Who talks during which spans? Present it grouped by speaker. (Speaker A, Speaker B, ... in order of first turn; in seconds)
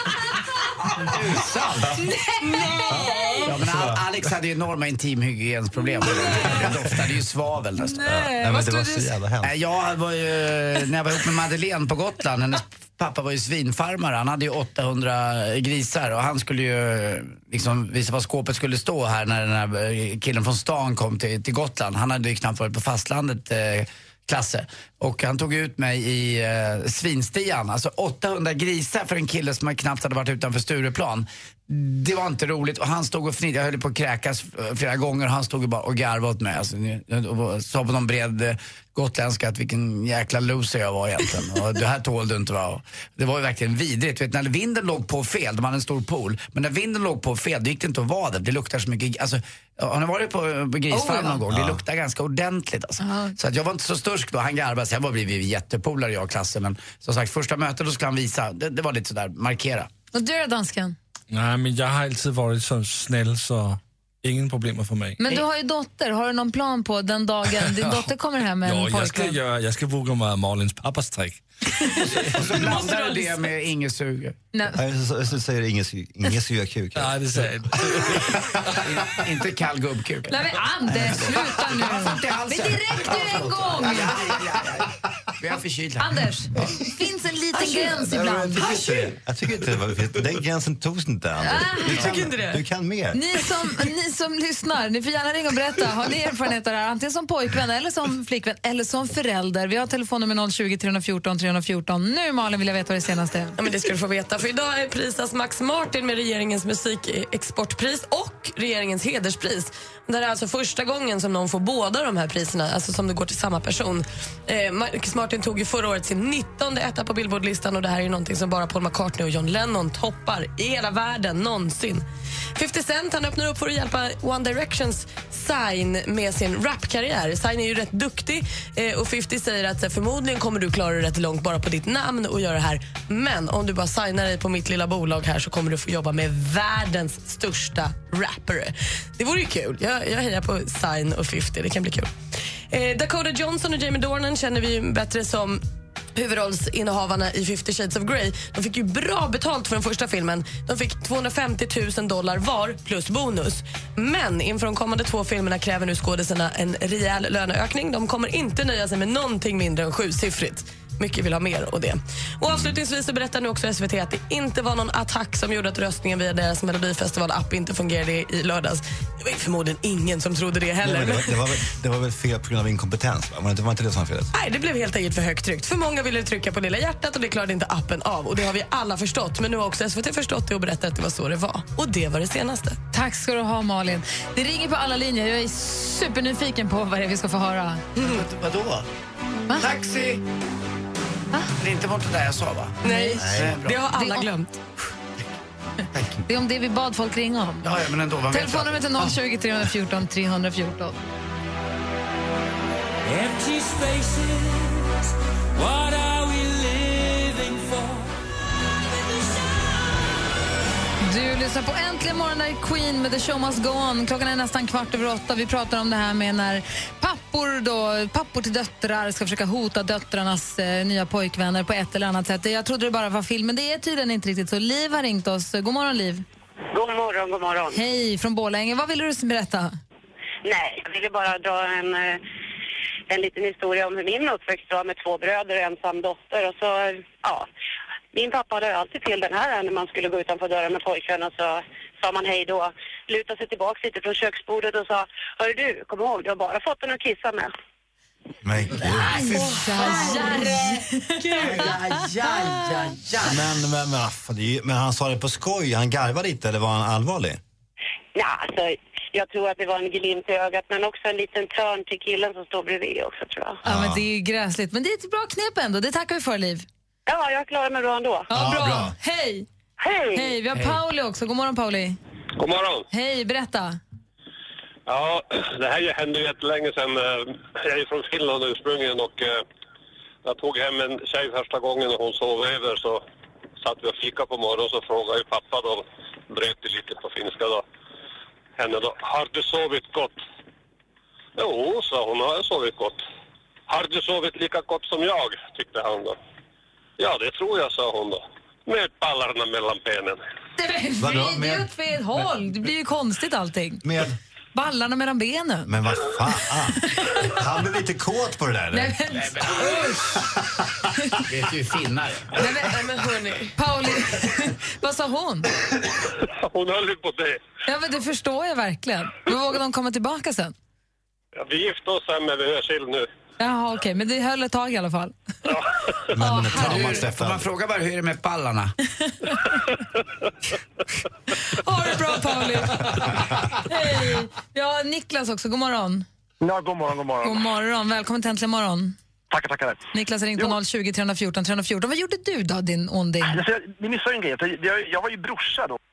Speaker A: 1.0-2.0, 3.4-8.1, 9.4-59.9, 72.2-74.3, 78.8-86.8, 187.9-188.9, 189.6-190.2, 191.6-193.8, 197.6-199.2, 251.4-253.4, 270.5-270.8, 309.3-309.7, 311.3-312.3, 326.5-328.7
Speaker B: 2.0-3.5, 6.0-6.7, 7.8-9.1, 50.9-51.4, 53.0-53.3, 60.1-61.0, 65.2-69.4, 80.3-84.1, 86.0-88.7, 91.4-92.1, 93.1-103.5, 182.9-187.8, 192.9-193.2, 193.9-194.3, 196.3-197.7, 198.3-201.0, 211.0-226.2, 227.7-229.7, 249.0-251.8, 263.6-266.6, 268.3-269.4, 270.1-272.0, 272.9-273.8, 300.6-303.8, 304.5-305.7, 308.7-310.1, 313.6-315.5, 317.6-320.5, 323.4-325.1, 326.2-327.0, 331.4-333.0, 333.6-336.1, 337.2-338.9, 339.9-343.4
Speaker C: 2.6-4.3, 6.3-6.8, 8.1-9.5, 51.5-51.8, 74.7-77.2, 88.0-93.2, 162.5-162.8, 170.8-174.3, 193.2-193.7, 195.9-196.2, 248.4-249.4, 253.2-257.4, 263.6-264.0, 268.3-268.9, 301.0-301.7, 303.8-304.2, 305.7-309.6, 326.1-327.5
Speaker D: 61.3-65.2, 67.5-71.4, 77.0-78.3, 203.1-204.5, 205.6-207.7
Speaker E: 72.5-73.5, 91.8-92.6, 103.6-142.1, 142.7-145.6, 146.1-171.5, 174.3-182.8, 192.8-194.6, 249.3-250.5, 251.2-251.7, 312.4-313.5
Speaker F: 226.7-227.8, 230.4-232.2, 233.1-237.5, 238.1-247.5, 258.1-263.6, 267.1-268.3, 269.8-270.3
Speaker G: 272.4-272.8, 274.9-279.4, 280.2-283.0, 283.6-287.6, 288.6-290.2, 291.4-293.0, 293.7-296.2, 297.0-300.2, 316.2-317.4, 321.4-323.1
Speaker H: 336.4-337.4, 339.3-339.8, 343.2-345.8